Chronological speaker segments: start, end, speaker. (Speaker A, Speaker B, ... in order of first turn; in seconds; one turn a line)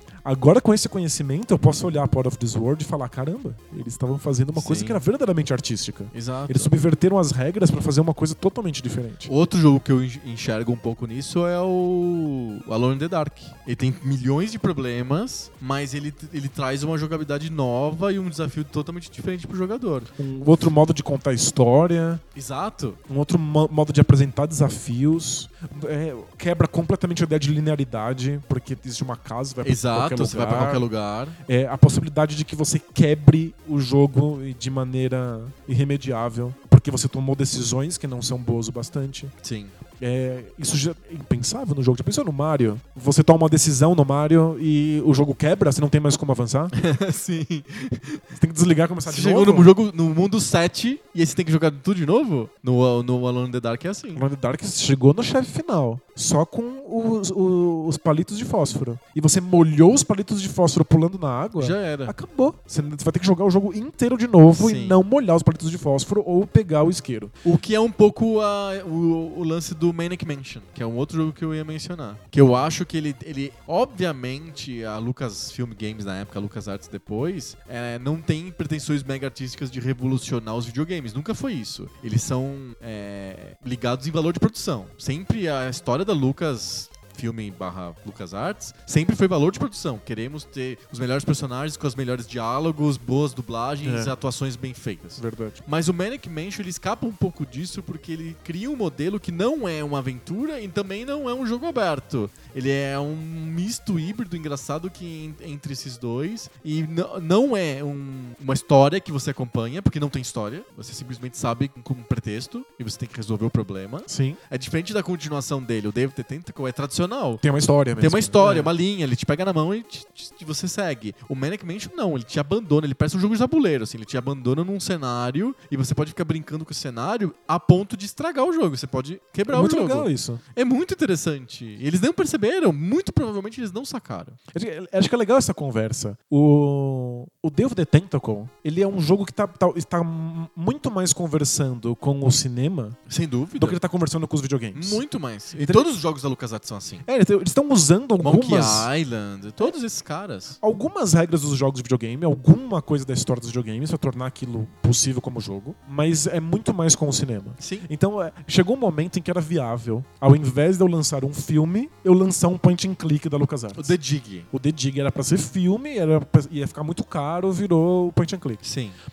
Speaker A: 0.2-9.3
Speaker B: 4.5-5.0
Speaker B: 6.1-6.7
Speaker B: 9.2-20.1
Speaker A: 20.2-22.2
Speaker B: 22.3-23.0
Speaker A: 23.1-30.9
Speaker B: 29.6-31.4
Speaker A: 31.4-39.3
Speaker B: 39.4-39.7
Speaker A: 40.0-46.7
Speaker B: 46.7-48.2
Speaker A: 48.3-49.7
Speaker B: 49.0-54.2
Speaker A: 54.1-67.3
Speaker B: 61.6-62.1
Speaker B: 64.5-65.0
Speaker B: 67.4-117.4
Speaker A: 93.8-94.1
Speaker A: 95.2-95.6
Speaker A: 114.1-114.4
Speaker A: 117.4-118.7
Speaker B: 118.0-134.4
Speaker A: 129.5-130.4
Speaker A: 134.5-143.0
Speaker B: 143.1-143.8
Speaker A: 143.6-145.0
Speaker B: 144.7-147.1
Speaker A: 145.5-145.9
Speaker A: 147.0-148.9
Speaker B: 148.2-150.6
Speaker A: 150.6-163.9
Speaker B: 157.6-157.9
Speaker B: 163.7-164.5
Speaker A: 164.5-168.6
Speaker B: 168.6-169.0